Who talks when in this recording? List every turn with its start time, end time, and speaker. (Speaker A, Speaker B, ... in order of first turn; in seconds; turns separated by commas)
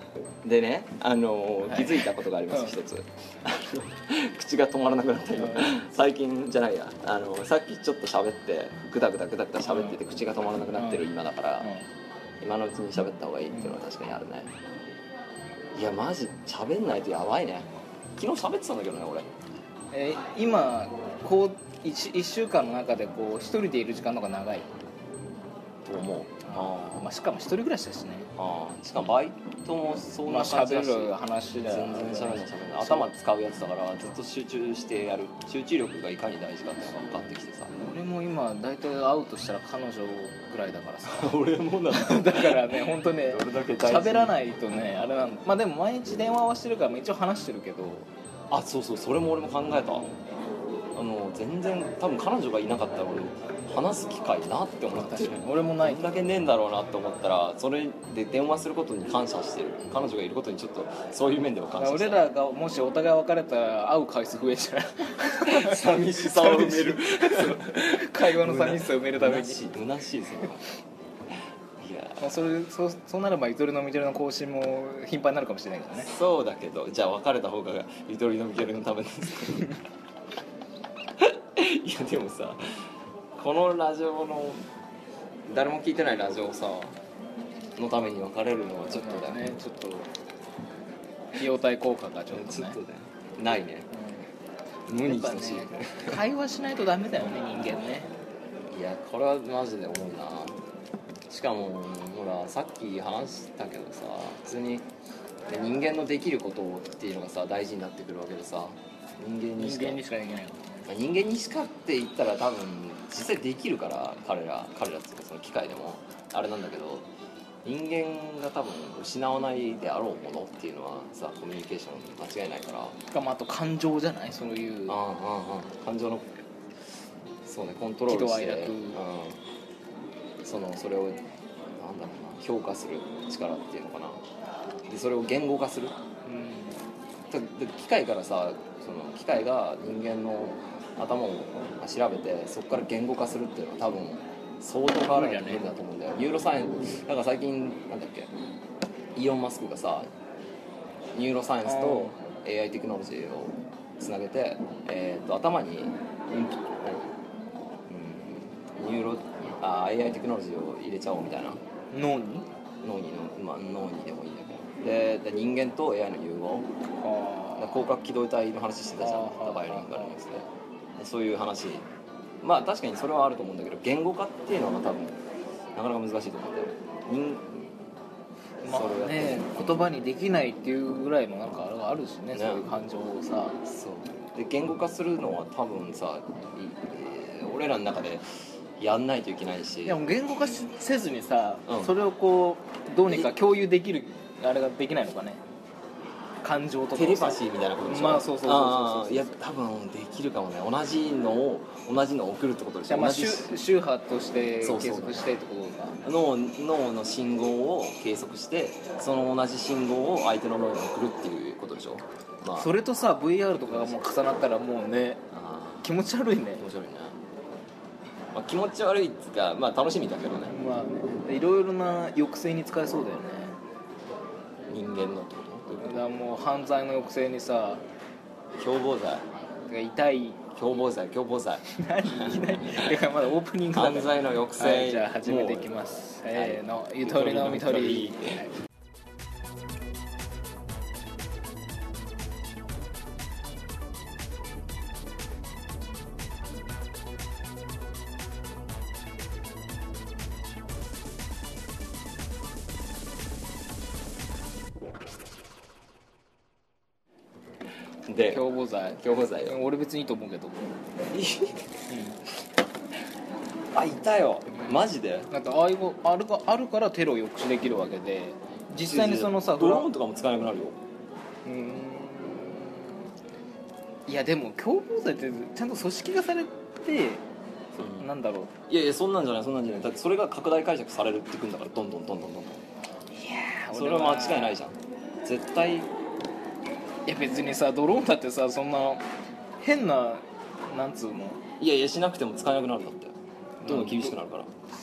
Speaker A: 0.4-11.7, Speaker B: 1.7-2.8, Speaker B: 5.4-5.7, Speaker B: 9.6-10.0, Speaker B: 10.7-11.1, Speaker B: 11.6-11.8, Speaker A: 12.4-14.5, Speaker A: 15.7-19.3, Speaker B: 19.9-24.7, Speaker A: 25.8-27.1, Speaker B: 26.4-28.3, Speaker A: 28.4-37.7, Speaker B: 30.2-33.1, Speaker B: 37.7-41.3, Speaker A: 41.0-44.4, Speaker B: 41.9-48.1, Speaker A: 48.5-50.1, Speaker A: 50.9-62.2, Speaker B: 54.9-56.1, Speaker B: 61.8-69.7, Speaker A: 65.4-70.7, Speaker A: 71.8-72.3, Speaker B: 72.2-76.1, Speaker A: 76.0-79.7, Speaker A: 81.2-82.6, Speaker A: 83.3-84.6, Speaker A: 85.5-87.0, Speaker A: 87.8-89.5, Speaker B: 88.9-90.1, Speaker B: 91.4-92.8, Speaker A: 92.3-93.9, Speaker B: 93.9-94.2, Speaker A: 94.9-96.2, Speaker B: 95.0-98.1, Speaker A: 98.7-100.5, Speaker A: 101.3-104.9, Speaker A: 105.5-110.0, Speaker B: 109.6-110.6, Speaker A: 110.9-117.1, Speaker A: 117.6-123.0, Speaker B: 123.1-125.0, Speaker A: 124.9-126.3, Speaker A: 127.4-129.4, Speaker B: 128.1-129.0, Speaker A: 130.4-131.2, Speaker A: 131.8-134.2, Speaker A: 134.9-135.9, Speaker B: 136.2-136.8, Speaker A: 137.3-148.3, Speaker B: 145.0-145.7, Speaker A: 149.1-150.1, Speaker A: 151.1-157.1, Speaker B: 151.6-152.1, Speaker A: 157.9-161.6, Speaker B: 161.9-162.5, Speaker A: 162.8-166.7, Speaker B: 167.0-167.9, Speaker A: 167.6-171.8, Speaker B: 169.0-170.1, Speaker A: 172.4-175.2, Speaker A: 175.7-177.7, Speaker B: 178.6-183.6, Speaker A: 178.6-179.9, Speaker A: 182.3-182.7, Speaker A: 183.6-188.2, Speaker A: 188.8-190.0, Speaker B: 189.8-195.4, Speaker A: 191.7-191.9, Speaker A: 193.1-193.3, Speaker B: 196.4-199.4, Speaker A: 196.9-203.6, Speaker B: 202.9-206.0, Speaker A: 204.6-205.3, Speaker A: 206.0-212.7, Speaker B: 212.6-215.2, Speaker A: 213.6-214.0, Speaker A: 215.3-215.9, Speaker B: 215.8-216.6, Speaker A: 216.6-217.2, Speaker A: 218.3-220.5, Speaker B: 220.5-223.6, Speaker A: 224.7-226.0, Speaker B: 225.8-227.8, Speaker A: 228.6-229.2, Speaker B: 229.7-230.4, Speaker A: 230.6-233.0, Speaker B: 231.8-238.5, Speaker A: 233.7-235.7, Speaker A: 236.3-238.4, Speaker A: 258.1-259.6, Speaker B: 258.3-260.7, Speaker A: 261.1-261.7, Speaker B: 261.9-262.2, Speaker A: 263.7-265.3, Speaker B: 265.3-269.9, Speaker A: 268.8-270.8, Speaker B: 271.4-273.0, Speaker B: 274.1-277.2, Speaker A: 277.8-278.1, Speaker B: 278.0-278.5, Speaker A: 278.7-282.6, Speaker B: 283.1-284.6, Speaker A: 283.7-285.9, Speaker B: 287.1-289.0, Speaker B: 289.6-291.4, Speaker A: 291.6-294.5, Speaker B: 293.6-294.1